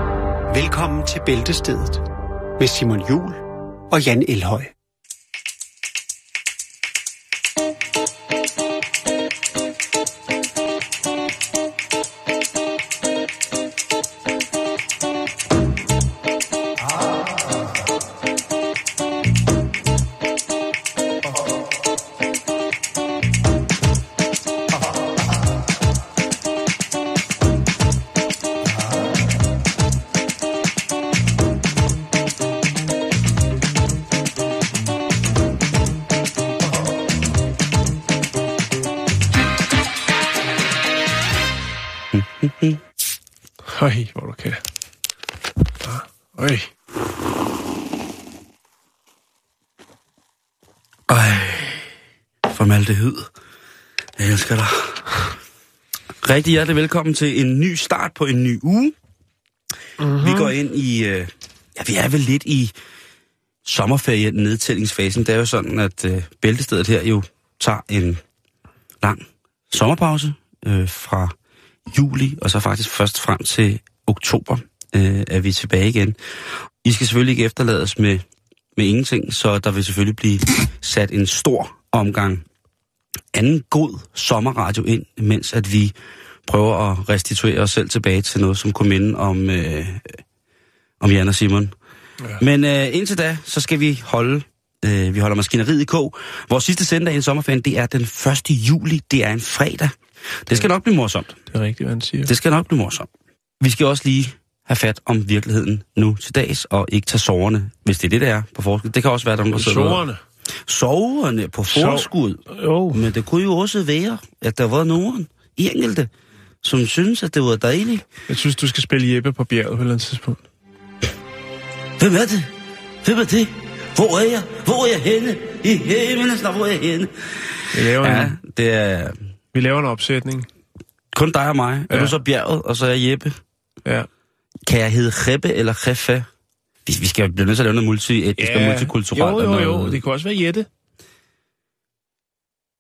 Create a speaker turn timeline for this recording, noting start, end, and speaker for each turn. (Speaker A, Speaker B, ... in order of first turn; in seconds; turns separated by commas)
Speaker A: 0.5-2.0, Speaker A: 2.6-4.7, Speaker B: 42.1-42.8, Speaker C: 43.7-44.6, Speaker C: 45.8-46.7, Speaker B: 51.1-51.9, Speaker B: 52.5-53.3, Speaker B: 54.2-55.1, Speaker B: 56.2-59.0, Speaker C: 60.0-60.5, Speaker B: 60.1-62.7, Speaker B: 63.6-68.2, Speaker B: 69.0-71.3, Speaker B: 71.9-76.2, Speaker B: 76.8-78.2, Speaker B: 78.8-82.4, Speaker B: 83.3-86.0, Speaker B: 86.5-90.2, Speaker B: 91.0-91.7, Speaker B: 92.4-101.4, Speaker C: 101.5-102.3, Speaker B: 102.3-103.1, Speaker B: 103.6-110.0, Speaker C: 109.5-110.2, Speaker B: 110.7-112.4, Speaker C: 111.7-113.1, Speaker B: 112.9-116.1, Speaker B: 116.6-118.1, Speaker C: 118.3-120.4, Speaker B: 122.0-122.5, Speaker B: 123.0-129.2, Speaker C: 127.7-128.4, Speaker C: 129.5-130.5, Speaker B: 131.1-133.4, Speaker C: 131.9-132.2, Speaker B: 134.7-136.3, Speaker B: 136.9-140.0, Speaker C: 138.4-140.7